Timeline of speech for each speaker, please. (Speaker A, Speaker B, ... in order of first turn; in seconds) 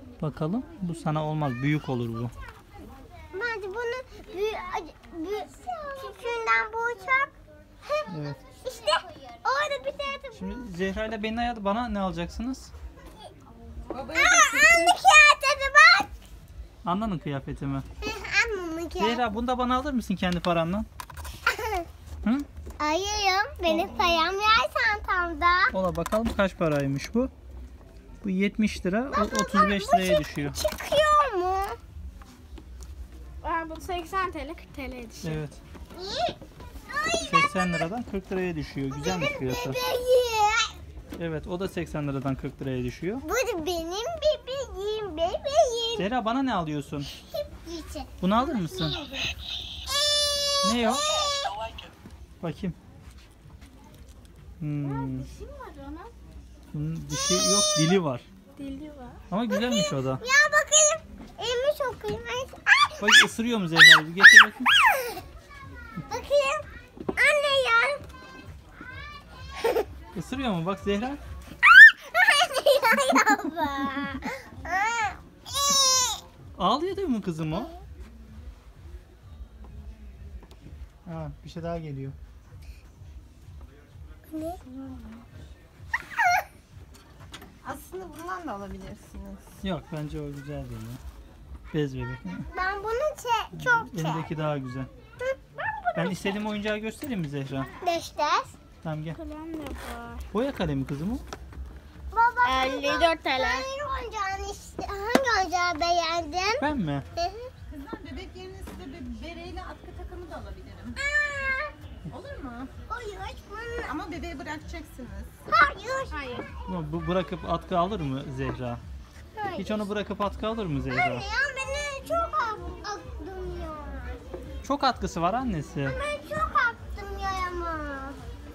Speaker A: 0.2-2.3, 8.1-8.4, 10.3-12.7, 16.8-17.9, 19.0-20.9, 23.7-24.0, 25.7-27.3, 28.2-30.6, 35.2-35.6, 37.2-39.8, 41.2-43.2, 46.0-47.1, 48.2-49.0, 50.6-51.0, 52.4-52.8, 54.6-55.3, 56.7-58.2, 59.3-60.2, 63.0-64.7, 70.1-71.2, 76.5-77.7, 81.0-82.2, 89.6-91.0, 91.7-92.4, 93.5-94.9, 96.0-97.7, 98.8-99.2, 100.3-101.2, 106.6-107.0, 116.7-118.8, 119.6-121.2, 124.6-126.0
Speaker B: 3.3-10.6, 14.1-16.1, 18.0-19.2, 21.5-21.9, 22.8-25.7, 29.1-31.8, 35.9-37.9, 38.9-40.8, 43.2-46.1, 47.1-48.1, 49.8-51.5, 59.5-63.2, 64.9-65.2, 66.1-66.6, 67.1-68.0, 72.1-76.2, 84.3-84.6, 92.5-94.3, 95.2-96.4, 97.8-98.5, 102.1-107.5, 111.0-111.7, 112.9-113.9, 115.5-116.4, 119.3-119.9, 120.9-124.2, 125.8-128.2
Speaker C: 13.9-14.9, 84.6-85.2, 87.6-89.4, 107.7-111.0, 112.1-112.7, 113.8-115.3
Speaker D: 33.4-35.4, 48.5-49.0, 54.8-56.1, 58.6-59.2, 99.1-100.2, 102.4-103.7, 116.1-116.5